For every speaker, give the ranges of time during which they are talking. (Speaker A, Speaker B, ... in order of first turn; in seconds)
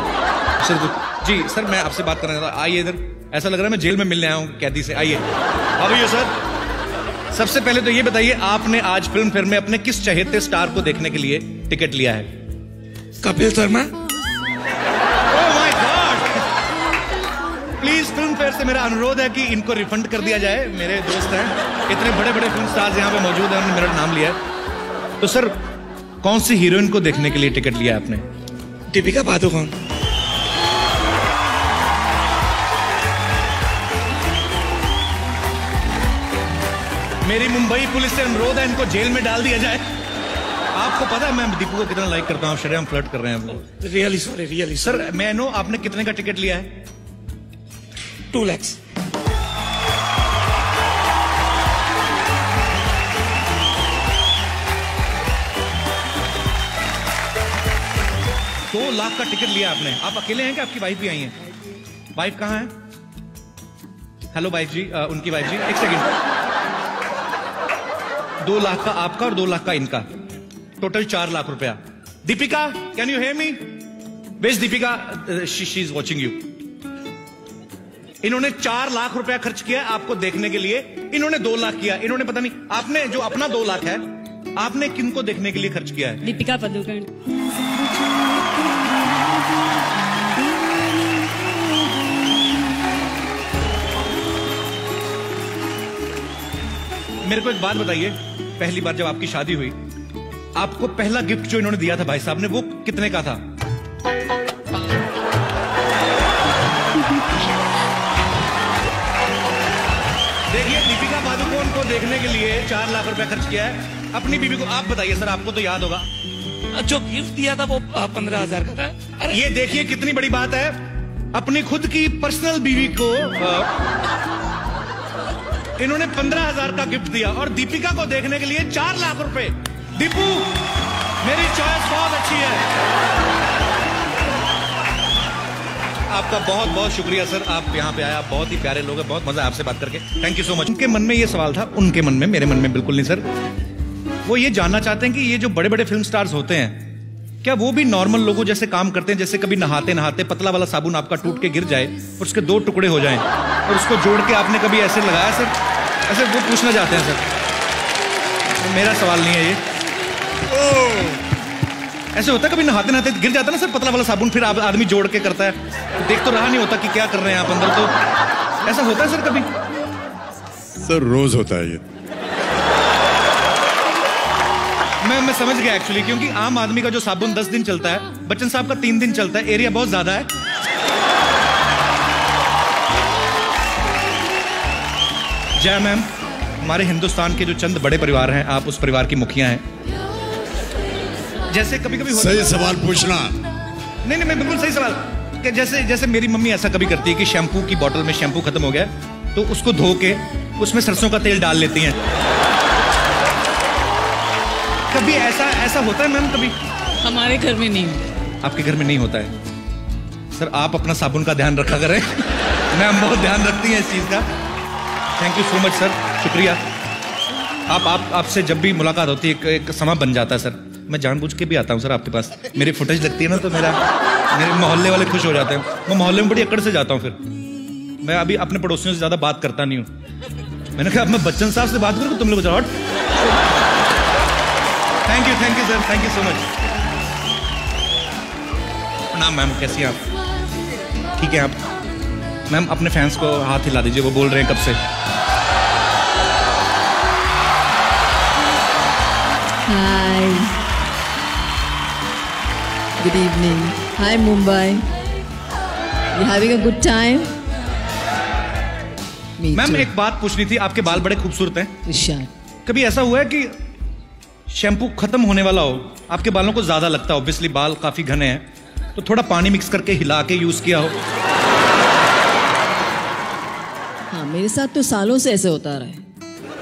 Speaker A: 0.6-5.3, 5.8-6.3, 7.3-12.3, 15.3-16.4, 17.8-24.4, 25.2-25.6, 26.2-28.2, 37.2-39.9, 40.7-43.7, 44.8-46.7, 58.7-61.4, 62.1-62.7, 64.3-66.1, 68.4-70.1, 70.8-73.7, 74.4-76.5, 78.2-84.0, 84.6-86.3, 97.2-99.8, 100.5-103.4, 110.5-116.1, 119.3-123.7, 125.8-132.7, 136.1-143.3, 144.2-146.9, 147.4-155.5, 156.1-157.3, 158.6-159.6, 162.2-167.9, 168.6-169.5, 175.0-180.3, 185.6-189.6, 191.5-192.6, 194.0-202.0, 204.9-206.6, 208.4-209.3, 210.3-214.3, 215.2-216.6, 217.7-223.8, 224.3-227.2, 228.0-229.9, 230.8-232.7, 235.1-236.5, 239.1-240.0, 241.2-241.6, 242.5-244.8, 259.5-261.8, 262.6-263.6, 264.5-271.0
Speaker B: 13.2-13.9, 28.9-29.7, 43.6-45.0, 48.3-48.8, 116.7-119.4
Speaker C: 86.2-89.3, 90.4-92.1, 207.0-208.0
Speaker D: 160.5-161.2, 170.8-171.8, 192.1-193.4
Speaker E: 249.7-250.5, 253.0-254.9, 256.1-257.3, 259.4-259.9, 261.9-262.3, 274.1-276.0